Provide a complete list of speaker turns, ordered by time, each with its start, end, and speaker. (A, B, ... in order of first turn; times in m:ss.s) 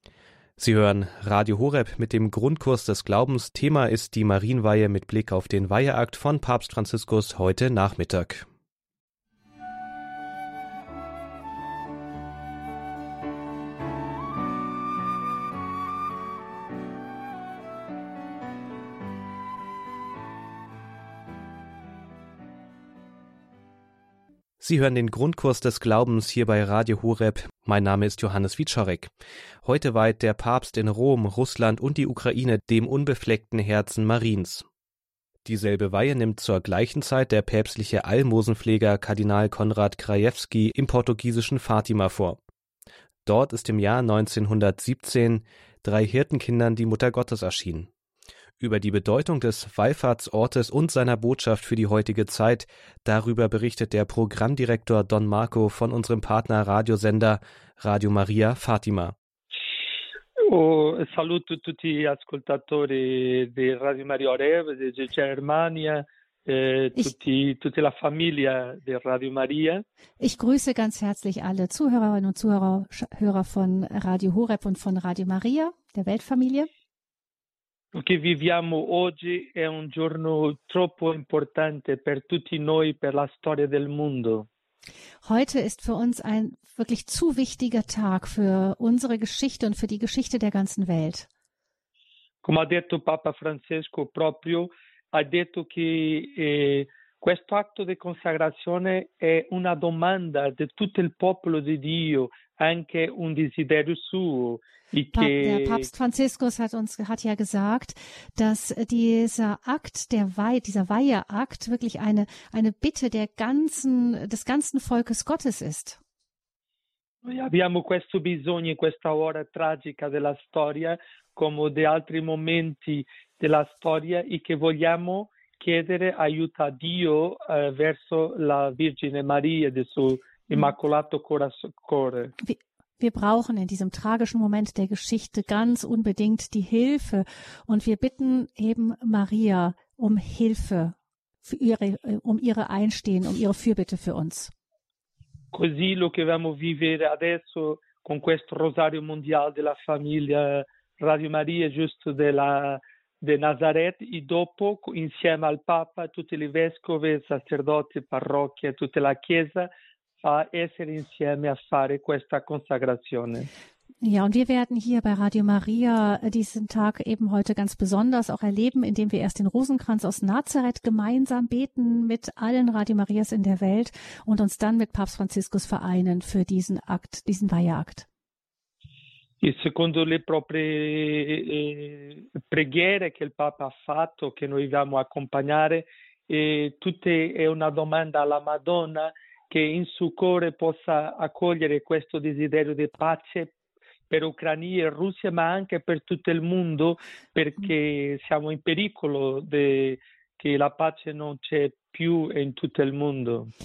0:00.6-0:08.5 A
0:24.6-0:29.1 A
0:29.6-0:34.6 A
0:35.4-0:42.4 A
0:43.2-0:47.9 A
0:48.6-0:59.1 A
1:00.5-1:09.8 B
1:10.2-1:16.7 C
1:17.9-1:24.5 B
1:25.2-1:31.3 C
1:32.4-1:45.8 B
1:45.1-1:56.0 C
1:57.2-2:12.3 B
2:12.4-2:24.5 C
2:25.5-2:39.7 B
2:40.2-2:43.5 B
2:44.0-2:58.0 C
2:59.4-3:13.5 B
3:14.1-3:23.5 B